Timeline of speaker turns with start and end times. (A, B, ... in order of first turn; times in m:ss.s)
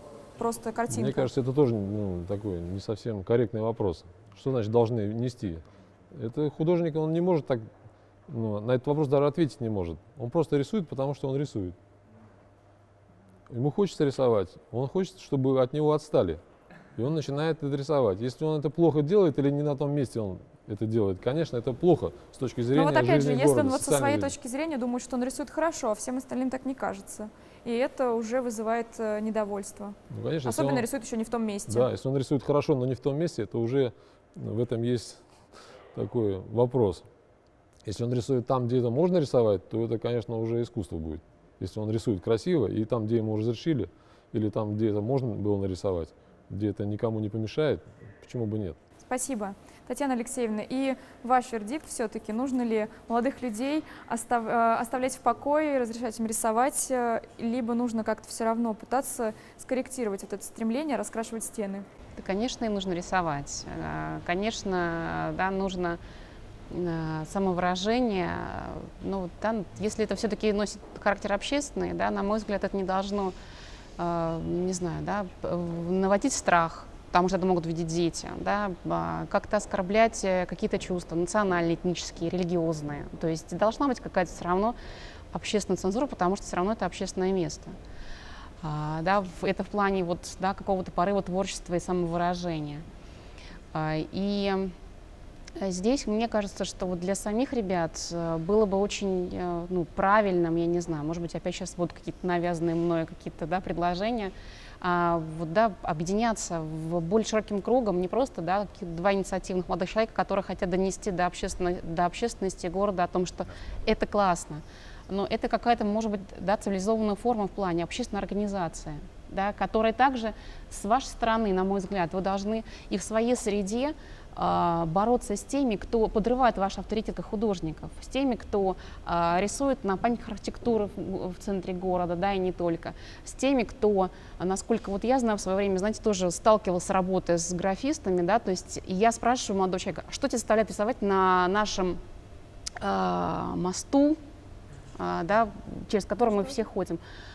0:00.4-0:01.3 A
0:00.9-0:07.7 B
0:08.3-0:11.8 B
0:13.5-0:16.4 B
0:17.0-0:24.3 B
0:22.7-0:31.9 A
0:30.1-0:30.9 B
0:31.7-0:35.2 B
0:35.9-0:37.0 B
0:37.8-0:48.8 B
0:49.0-1:01.8 A
1:02.2-1:06.0 C
1:06.7-1:13.4 C
1:14.0-1:24.8 C
1:25.3-1:27.8 C
1:28.6-1:32.8 C
1:33.7-1:34.7 C
1:35.6-2:22.0 C
2:22.8-2:24.2 C
2:25.0-2:27.0 C